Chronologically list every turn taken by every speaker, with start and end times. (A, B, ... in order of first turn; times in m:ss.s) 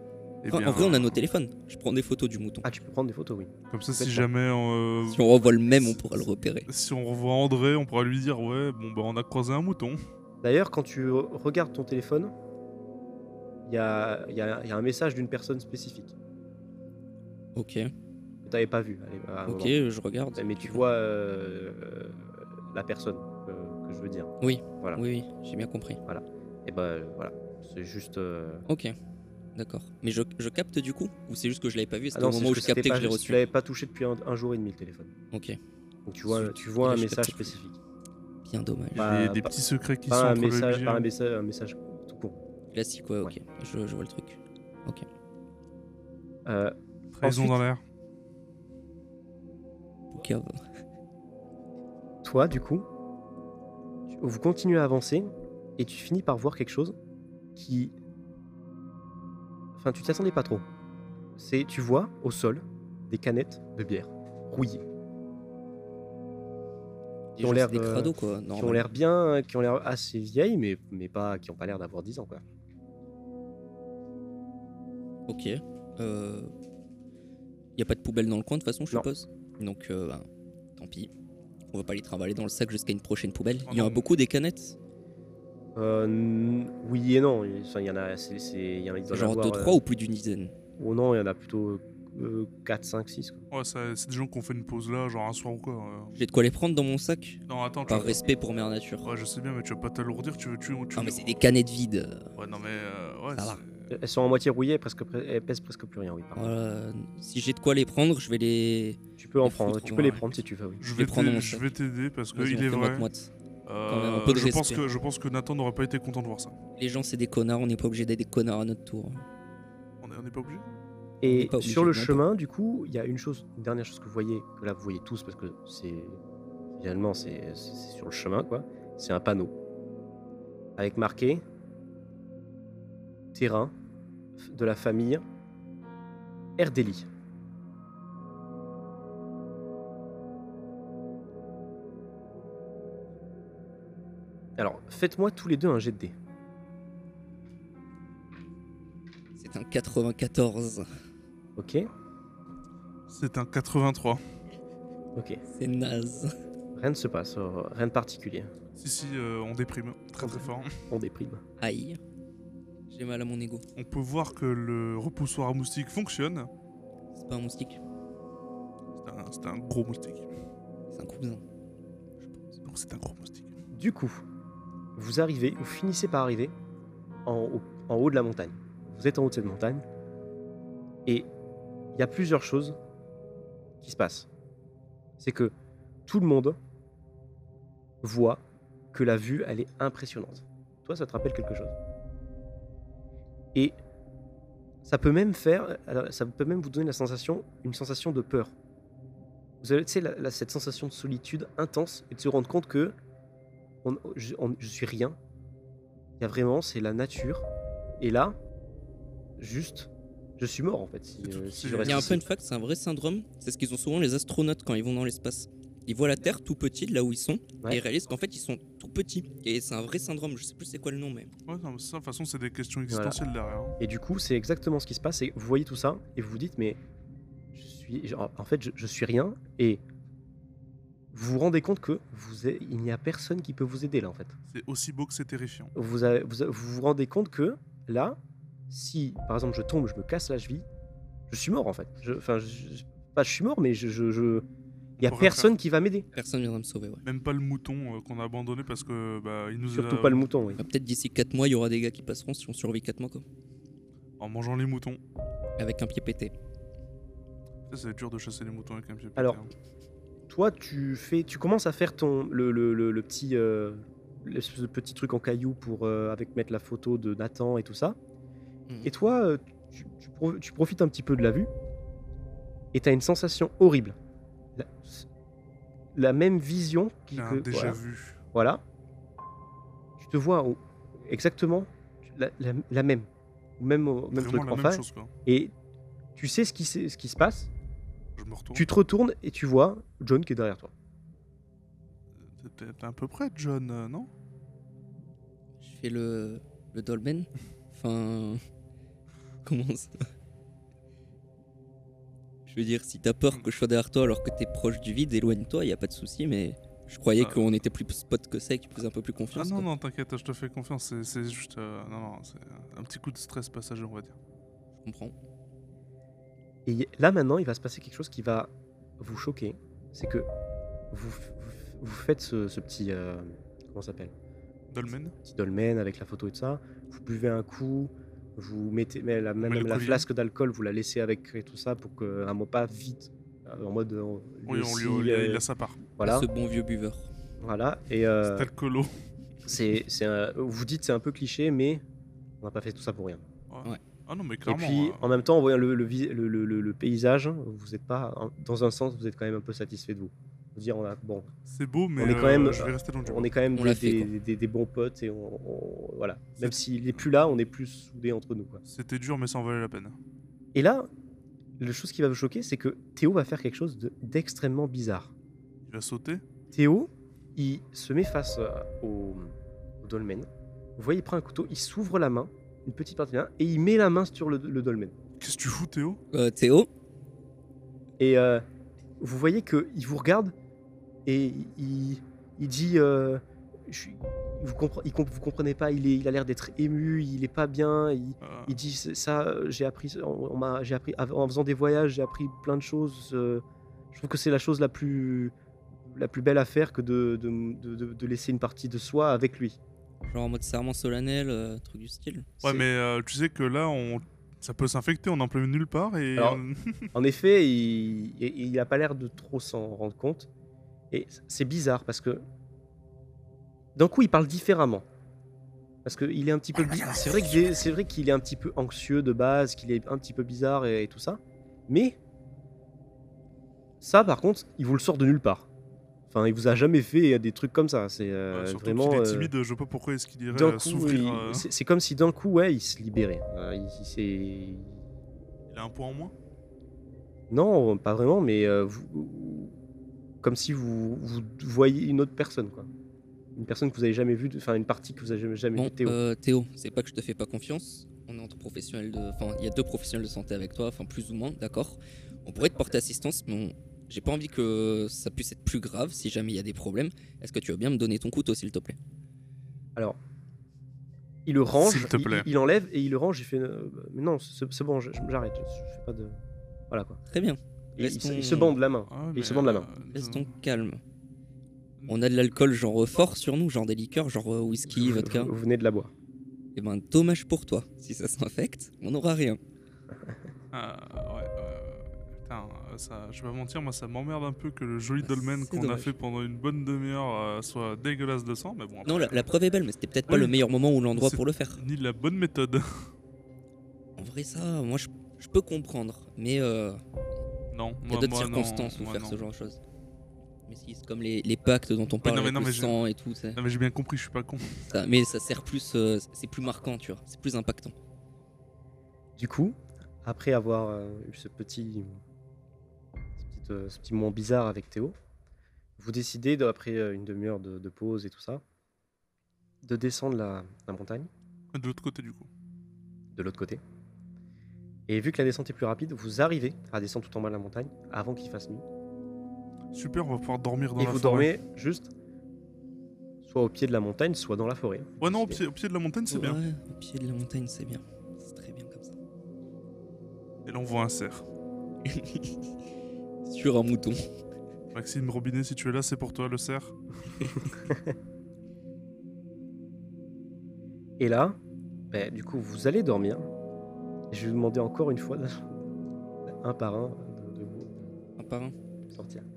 0:00.4-0:01.1 A
0:00.5-0:02.6 B
0:02.6-0:04.3 C
0:03.7-0:10.0 A
0:05.0-0:06.7 B
0:10.4-0:12.3 C
0:13.6-0:16.1 C
0:17.6-0:17.9 B
0:18.4-0:19.8 C
0:19.4-0:20.8 B
0:20.4-0:25.0 C
0:24.4-0:26.0 B
0:26.0-0:28.6 C
0:28.7-0:28.9 B
0:29.6-0:33.4 B
0:32.1-0:35.1 C
0:35.3-0:35.6 B
0:36.0-0:37.8 C
0:36.3-0:37.6 B
0:38.4-0:39.1 B
0:38.9-0:39.5 C
0:38.9-0:41.1 A
0:40.1-0:42.4 C
0:42.7-0:45.0 B
0:46.4-0:47.6 C
0:47.1-0:47.8 A
0:50.1-0:50.5 B
0:52.2-0:52.8 C
0:54.1-0:56.9 C
0:57.6-0:57.9 C
0:59.8-1:00.6 C
1:01.4-1:04.8 C
1:07.3-1:08.9 B
1:07.4-1:12.4 C
1:15.3-1:16.5 B
1:17.8-1:21.1 B
1:21.7-1:24.8 B
1:23.6-1:24.1 A
1:25.7-1:29.8 C
1:29.1-1:30.5 B
1:30.8-1:33.4 C
1:33.5-1:36.1 A
1:36.1-1:39.1 B
1:37.5-1:38.2 A
1:39.0-1:41.3 A
1:41.0-1:42.3 B
1:42.4-1:43.7 A
1:43.4-1:43.6 B
1:43.9-1:46.6 C
1:46.3-1:50.2 B
1:49.2-1:50.8 C
1:50.8-1:53.1 A
1:50.9-1:51.7 B
1:52.3-1:53.3 B
1:53.6-1:56.6 A
1:53.9-1:54.8 B
1:56.8-1:59.2 B
2:00.0-2:00.8 A
2:01.2-2:06.2 C
2:01.2-2:02.2 B
2:06.8-2:09.5 C
2:10.8-2:11.4 C
2:13.3-2:13.7 C
2:14.4-2:15.2 C
2:16.6-2:17.1 C
2:24.6-2:26.1 C
2:29.4-2:30.9 B
2:31.6-2:31.9 C
2:33.1-2:34.2 A
2:35.2-2:35.4 C
2:35.5-2:36.3 B
2:36.8-2:38.5 C
2:38.8-2:40.8 A
2:40.2-2:41.4 C
2:41.6-2:42.0 B
2:42.9-2:43.6 B
2:43.8-2:46.5 A
2:47.1-2:47.8 B
2:49.0-2:50.3 A
2:50.9-2:51.4 B
2:52.6-2:53.6 A
2:53.7-2:54.2 C
2:55.0-2:56.5 C
2:57.2-2:59.8 C
3:01.9-3:02.8 C
3:03.8-3:04.3 C
3:05.2-3:05.5 C
3:06.1-3:06.6 C
3:08.0-3:11.7 C
3:14.8-3:18.5 C
3:19.6-3:22.9 C
3:23.8-3:25.2 C
3:26.2-3:27.4 C
3:28.0-3:28.4 C
3:29.4-3:32.2 C
3:31.2-3:32.2 A
3:31.8-3:41.3 B
3:41.5-3:43.8 A
3:42.9-3:43.2 C
3:43.8-3:46.8 C
3:47.5-3:49.8 C
3:51.1-3:54.3 C
3:54.5-3:55.7 A
3:55.7-3:58.2 C
3:58.7-4:00.6 C
4:01.3-4:04.4 C
4:05.0-4:05.5 A
4:05.0-4:06.1 C
4:06.1-4:07.0 B
4:07.0-4:10.3 A
4:09.7-4:10.6 C
4:10.6-4:13.2 B
4:14.2-4:15.0 A
4:15.6-4:16.3 B
4:17.7-4:19.5 A
4:20.3-4:28.0 C
4:28.8-4:31.5 C
4:32.7-4:34.0 C
4:34.6-4:35.0 C
4:35.9-4:37.8 C
4:37.1-4:38.2 A
4:38.3-4:38.6 C
4:40.0-4:43.1 C
4:43.6-4:45.5 C
4:44.1-4:45.1 A
4:46.2-4:47.5 C
4:48.2-4:48.7 A
4:48.5-4:50.7 C
4:52.2-4:54.1 A
4:55.6-4:58.4 B
4:59.4-5:00.0 B
5:02.4-5:09.7 B
5:07.2-5:07.5 A
5:09.3-5:14.2 A
5:14.8-5:15.1 B
5:16.6-5:20.3 C
5:20.9-5:24.1 C
5:24.7-5:25.2 A
5:25.2-5:35.4 C
5:29.4-5:30.0 A
5:34.5-5:35.8 A
5:36.0-5:36.3 C
5:36.0-5:37.1 B
5:37.4-5:38.5 C
5:38.2-5:39.0 A
5:39.4-5:41.8 C
5:42.4-5:43.2 C
5:43.5-5:45.0 A
5:44.4-5:51.3 C
5:51.5-5:53.3 A
5:52.0-5:58.6 C
5:53.5-5:54.1 B
5:56.4-5:57.0 A
5:58.7-6:00.0 A
6:00.5-6:00.9 C
6:01.6-6:05.1 C
6:05.6-6:06.2 A
6:06.5-6:14.9 C
6:15.2-6:16.0 A
6:16.1-6:16.7 B
6:18.0-6:18.4 C
6:19.0-6:20.3 C
6:21.0-6:35.3 C
6:28.2-6:28.6 A
6:35.8-6:39.6 C
6:40.1-6:42.4 B
6:42.4-6:46.9 A
6:46.2-6:46.4 C
6:46.9-6:50.3 C
6:50.9-6:52.2 C
6:53.7-6:54.8 C
6:55.8-7:02.0 C
7:03.8-7:05.5 C
7:06.1-7:09.3 C
7:08.3-7:11.5 A
7:10.3-7:14.8 C
7:15.5-7:16.1 A
7:17.3-7:19.6 C
7:20.2-7:22.7 C
7:23.4-7:26.0 C
7:25.6-7:38.8 B
7:41.2-7:46.2 C
7:41.6-7:42.3 A
7:46.7-7:47.0 C
7:47.1-7:48.6 B
7:47.8-7:49.7 C
7:48.9-7:50.3 A
7:49.9-7:50.8 B
7:51.9-7:55.3 B
7:54.7-7:55.9 C
7:56.5-7:59.4 B
8:00.5-8:09.2 A
8:05.0-8:05.9 B
8:08.8-8:11.6 B
8:10.1-8:10.4 A
8:10.9-8:12.9 A
8:14.0-8:16.8 B
8:17.5-8:19.2 A
8:17.9-8:19.6 B
8:20.5-8:23.4 B
8:22.0-8:22.8 A
8:23.4-8:24.7 A
8:24.7-8:27.7 B
8:29.2-8:32.0 C
8:33.2-8:34.9 C
8:35.8-8:38.4 C
8:39.6-8:41.1 C
8:41.5-8:42.3 A
8:43.1-8:43.6 C
8:44.9-8:48.6 C
8:49.7-8:51.3 A
8:50.8-8:51.9 C
8:53.2-8:55.4 C
8:55.0-8:56.4 A
8:56.1-8:58.9 B
9:00.4-9:01.2 A
9:01.8-9:02.5 B
9:03.2-9:04.0 B
9:04.7-9:06.8 A
9:11.0-9:11.4 C
9:11.9-9:13.3 C
9:14.1-9:15.7 C
9:16.2-9:17.9 C
9:18.2-9:18.5 B
9:18.9-9:19.3 C